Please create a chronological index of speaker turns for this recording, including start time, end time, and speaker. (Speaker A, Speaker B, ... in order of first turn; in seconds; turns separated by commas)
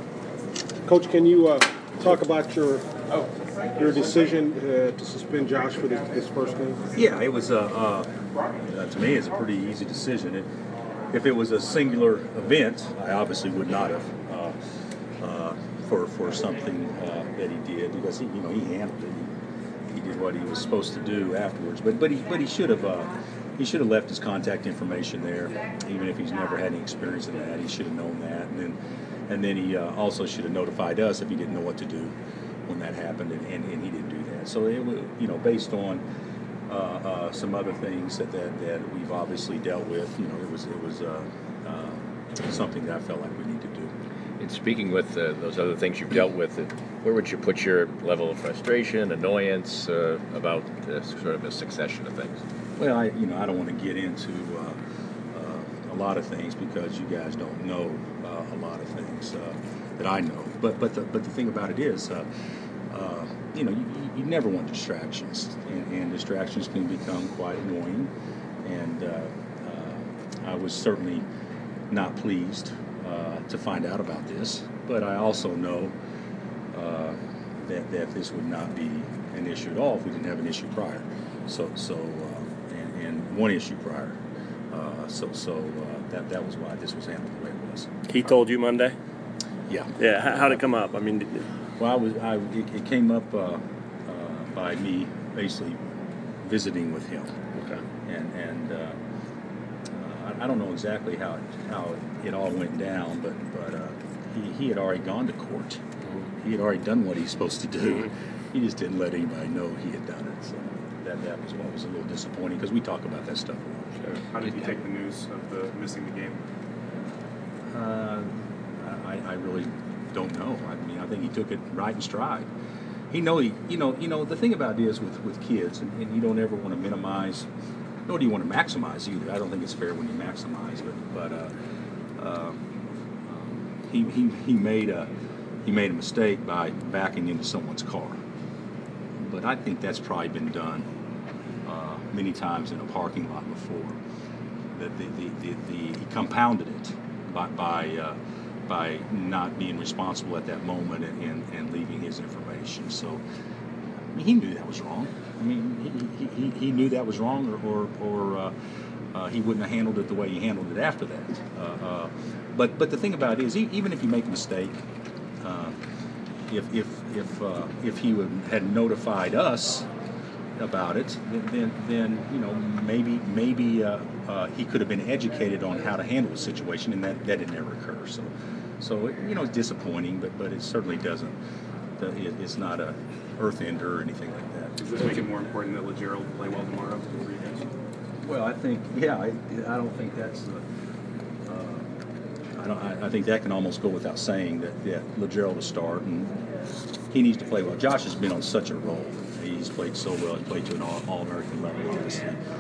Speaker A: 0.8-2.9, Speaker A: 3.8-6.8, Speaker B: 7.0-8.1, Speaker B: 8.7-10.5, Speaker B: 11.1-14.6, Speaker B: 15.2-19.3, Speaker B: 19.9-28.8, Speaker B: 29.3-32.1, Speaker B: 32.7-36.0, Speaker B: 36.7-43.9, Speaker C: 44.4-52.4, Speaker B: 52.8-54.8, Speaker B: 55.3-62.3, Speaker B: 62.9-68.1, Speaker B: 68.6-71.2, Speaker B: 71.9-75.9, Speaker B: 76.7-84.2, Speaker B: 84.7-87.9, Speaker D: 88.1-89.0, Speaker B: 89.7-90.6, Speaker D: 90.0-91.4, Speaker B: 91.8-95.8, Speaker B: 96.4-97.3, Speaker B: 98.0-99.0, Speaker B: 99.9-105.8, Speaker B: 106.4-113.9, Speaker E: 114.3-116.4, Speaker B: 117.7-122.5, Speaker B: 123.1-127.5, Speaker B: 128.1-131.5, Speaker B: 132.2-132.6, Speaker B: 133.3-135.1, Speaker B: 135.7-138.2, Speaker B: 139.2-140.9, Speaker B: 141.7-144.0, Speaker B: 144.8-153.2, Speaker B: 154.2-158.5, Speaker B: 159.1-164.8, Speaker B: 165.4-165.8, Speaker B: 166.5-169.9, Speaker B: 170.6-181.3, Speaker B: 182.0-184.8, Speaker E: 184.8-187.7, Speaker B: 188.2-190.6, Speaker B: 191.5-191.9, Speaker B: 192.6-196.4, Speaker B: 197.1-202.4